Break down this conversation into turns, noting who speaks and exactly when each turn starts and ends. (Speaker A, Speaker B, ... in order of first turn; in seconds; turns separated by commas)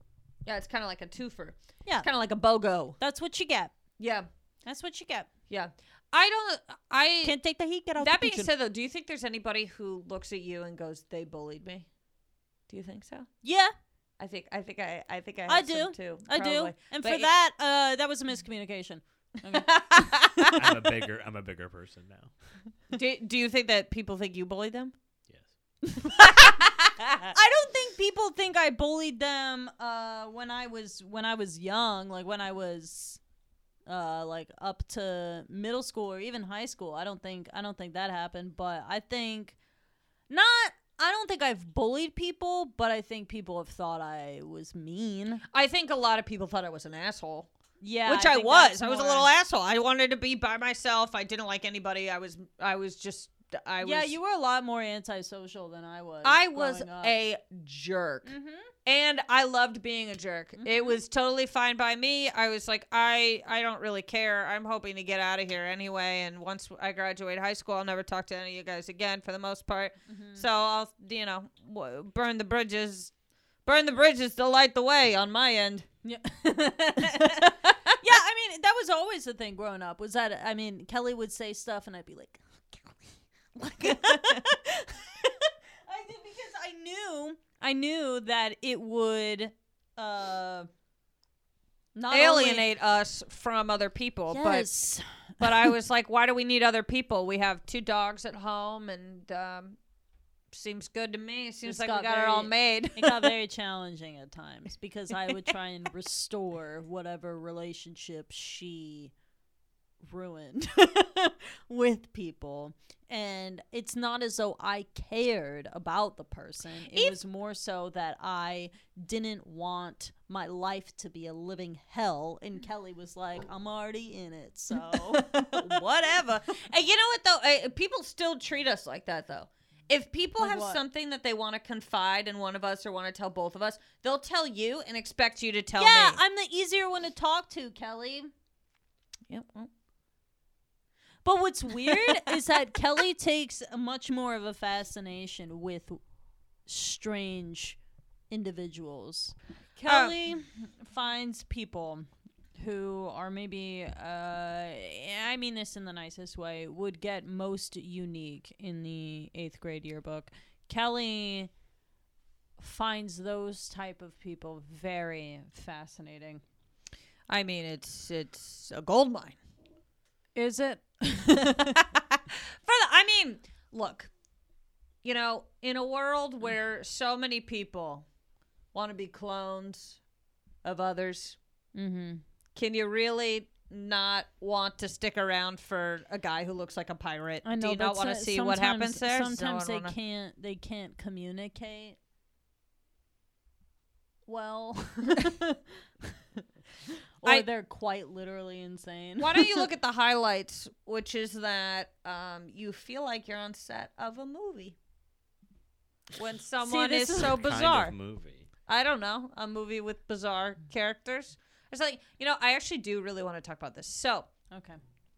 Speaker A: 0.5-3.0, Speaker B: 3.0-3.7, Speaker A: 4.0-4.3, Speaker B: 4.7-5.3, Speaker A: 5.5-7.4, Speaker B: 7.2-8.5, Speaker A: 8.0-11.9, Speaker A: 12.7-13.3, Speaker B: 13.4-13.7, Speaker A: 14.2-17.3, Speaker B: 15.5-20.2, Speaker A: 19.6-20.7, Speaker C: 20.5-22.3, Speaker A: 22.9-24.9, Speaker B: 25.9-26.5, Speaker A: 26.2-27.3, Speaker B: 27.3-33.2, Speaker B: 33.9-39.5, Speaker B: 40.3-45.4, Speaker A: 45.5-47.5, Speaker B: 47.8-49.3, Speaker A: 48.0-54.1, Speaker B: 53.8-57.1, Speaker A: 56.2-58.3, Speaker B: 58.2-58.7, Speaker A: 58.9-73.1, Speaker B: 60.6-61.0, Speaker B: 70.1-70.5, Speaker A: 73.7-75.9, Speaker B: 76.0-83.0, Speaker A: 77.1-78.0, Speaker B: 83.5-90.7, Speaker A: 83.8-84.5, Speaker B: 92.0-92.7, Speaker A: 92.1-94.7, Speaker B: 94.3-95.7, Speaker A: 95.4-99.8, Speaker A: 100.5-103.3, Speaker B: 101.6-109.1, Speaker B: 110.1-125.7, Speaker A: 116.9-117.2, Speaker A: 124.9-136.2, Speaker B: 130.4-130.8, Speaker B: 135.8-138.3, Speaker A: 139.3-139.7, Speaker B: 141.2-146.0, Speaker B: 146.7-147.8, Speaker B: 148.3-161.5, Speaker A: 149.8-150.2, Speaker B: 162.6-166.4, Speaker A: 167.3-169.4, Speaker B: 170.3-171.8, Speaker A: 171.6-174.1, Speaker A: 175.0-178.1, Speaker A: 178.7-180.0, Speaker A: 180.6-181.4, Speaker B: 181.7-182.2, Speaker A: 182.6-189.9, Speaker B: 187.4-192.0, Speaker B: 194.3-195.5, Speaker B: 197.2-199.7, Speaker A: 199.2-204.8, Speaker A: 206.1-207.9, Speaker B: 206.6-207.9, Speaker C: 207.2-208.5, Speaker A: 208.7-214.3, Speaker B: 214.5-214.8